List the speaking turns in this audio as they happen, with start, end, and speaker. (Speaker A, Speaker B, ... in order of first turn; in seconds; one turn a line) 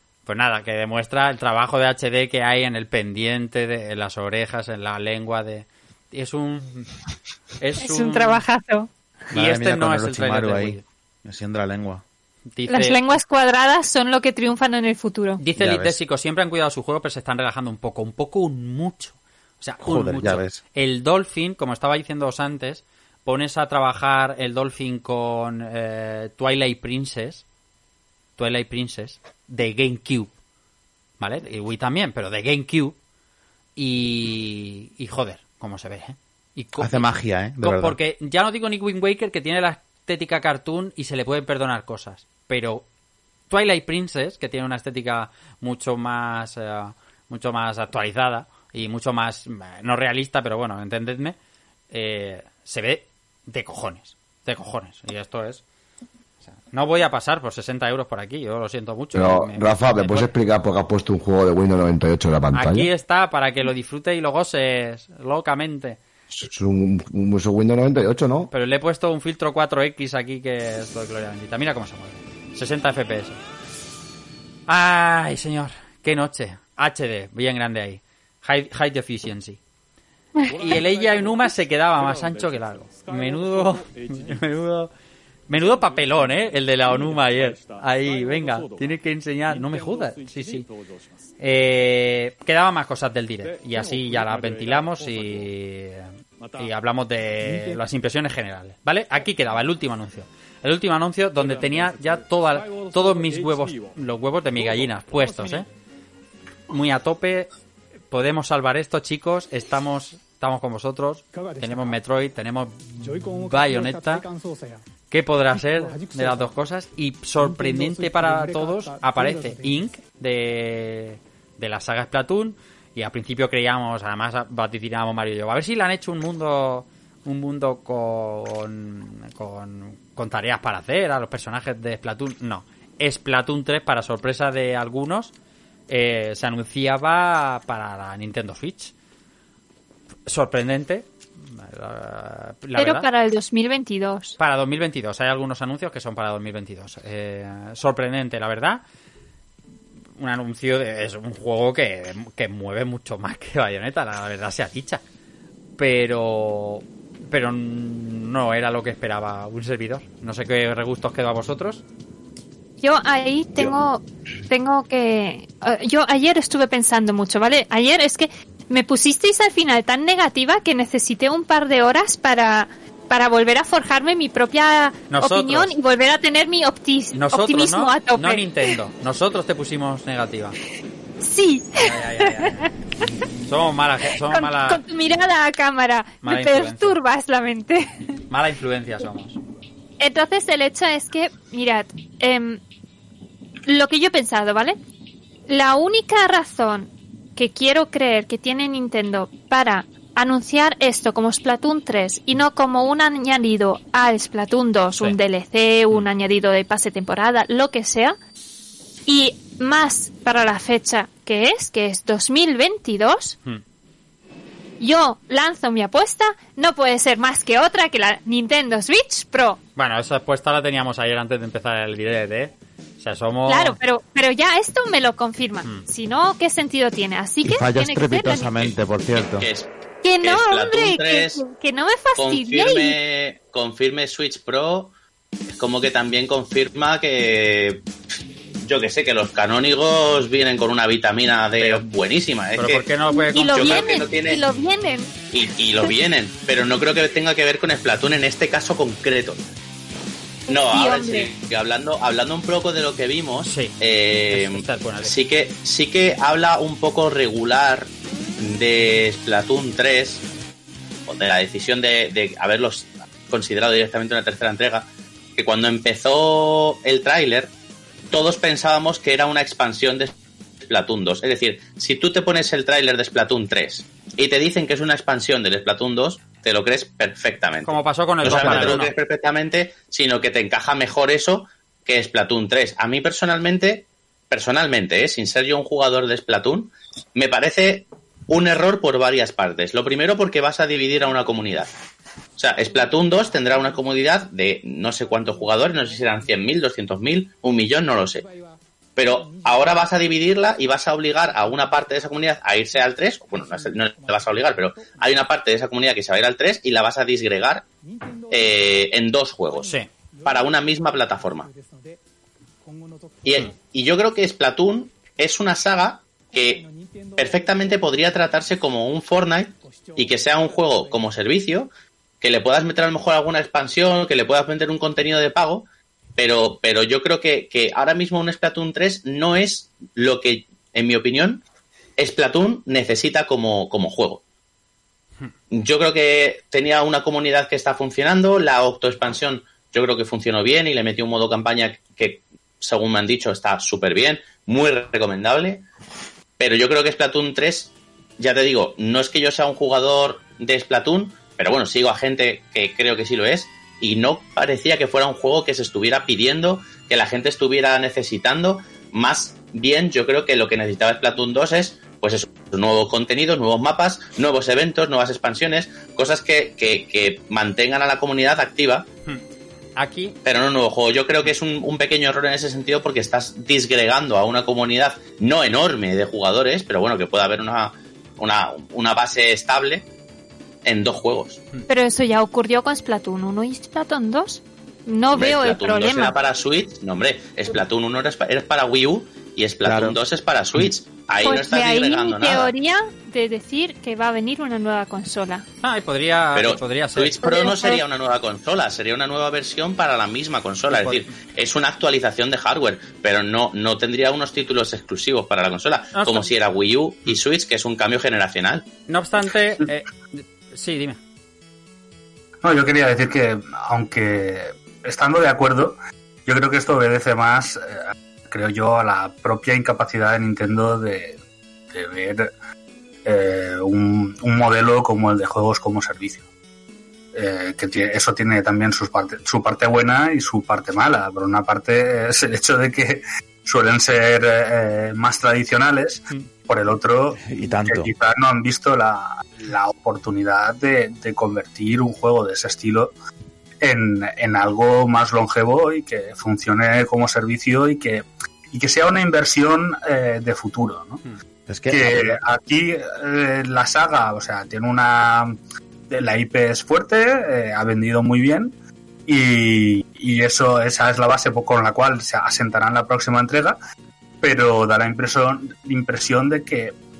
Speaker A: 0.2-6.9
Speaker A: 7.6-8.4
Speaker B: 7.8-8.9
Speaker A: 9.3-10.8
Speaker C: 9.3-12.0
Speaker A: 12.5-13.1
Speaker B: 12.7-15.4
Speaker A: 15.4-27.4
Speaker C: 15.6-16.0
Speaker C: 19.8-20.6
Speaker A: 28.4-30.3
Speaker A: 31.2-33.0
Speaker A: 33.8-42.8
Speaker C: 36.8-38.0
Speaker A: 43.5-51.4
Speaker A: 51.9-55.6
Speaker A: 56.5-60.3
Speaker D: 59.1-62.9
Speaker A: 62.5-66.0
Speaker D: 66.3-68.5
Speaker A: 68.5-73.4
Speaker A: 74.7-79.6
Speaker A: 80.5-84.9
Speaker A: 85.5-90.7
Speaker A: 91.4-105.7
Speaker A: 106.7-107.5
Speaker A: 108.1-114.3
Speaker A: 115.1-135.3
Speaker A: 135.9-138.9
Speaker A: 140.3-143.1
Speaker B: 142.8-144.3
Speaker A: 144.4-148.8
Speaker A: 150.2-155.0
Speaker A: 155.8-161.8
Speaker B: 162.8-178.7
Speaker A: 175.1-175.7
Speaker A: 177.1-180.6
Speaker B: 181.2-182.7
Speaker A: 181.8-182.7
Speaker A: 183.5-184.8
Speaker B: 184.2-187.9
Speaker A: 186.2-187.0
Speaker A: 188.3-189.4
Speaker B: 190.0-192.6
Speaker B: 193.7-194.8
Speaker B: 195.5-208.2
Speaker B: 209.1-213.4
Speaker B: 214.8-219.6
Speaker A: 219.8-223.8
Speaker B: 223.5-228.6
Speaker C: 227.4-229.5
Speaker E: 228.6-231.4
Speaker B: 230.0-233.0
Speaker E: 232.2-234.9
Speaker E: 235.5-237.8
Speaker E: 238.6-242.9
Speaker A: 241.6-241.8
Speaker A: 242.6-243.9
Speaker B: 243.1-245.1
Speaker E: 243.5-244.4
Speaker E: 245.3-249.4
Speaker B: 250.5-251.3
Speaker E: 250.5-257.9
Speaker A: 253.4-253.8
Speaker A: 254.3-255.1
Speaker E: 258.4-260.2
Speaker E: 261.1-267.5
Speaker E: 268.1-270.1
Speaker E: 270.6-291.7
Speaker A: 277.6-278.9
Speaker E: 292.4-298.3
Speaker E: 298.9-307.6
Speaker E: 308.3-309.7
Speaker A: 309.6-309.9
Speaker E: 310.2-311.5
Speaker E: 313.2-316.6
Speaker E: 317.2-331.4
Speaker E: 332.0-334.2
Speaker E: 335.5-345.6
Speaker E: 346.4-368.9
Speaker A: 369.8-370.1
Speaker E: 370.2-379.8
Speaker E: 380.6-381.4
Speaker B: 381.7-386.1
Speaker E: 385.1-392.5
Speaker C: 389.6-390.0
Speaker B: 391.2-395.4
Speaker A: 395.6-397.3
Speaker E: 396.3-408.6
Speaker B: 397.2-397.8
Speaker A: 400.7-401.1
Speaker A: 405.9-406.3
Speaker A: 408.9-411.0
Speaker F: 412.4-421.2
Speaker F: 421.7-422.3
Speaker F: 423.0-426.3
Speaker F: 427.1-442.9
Speaker C: 437.2-437.9
Speaker F: 443.6-451.0
Speaker C: 451.5-452.2
Speaker F: 451.7-455.4
Speaker F: 455.9-458.5
Speaker F: 459.1-463.6
Speaker F: 464.2-466.8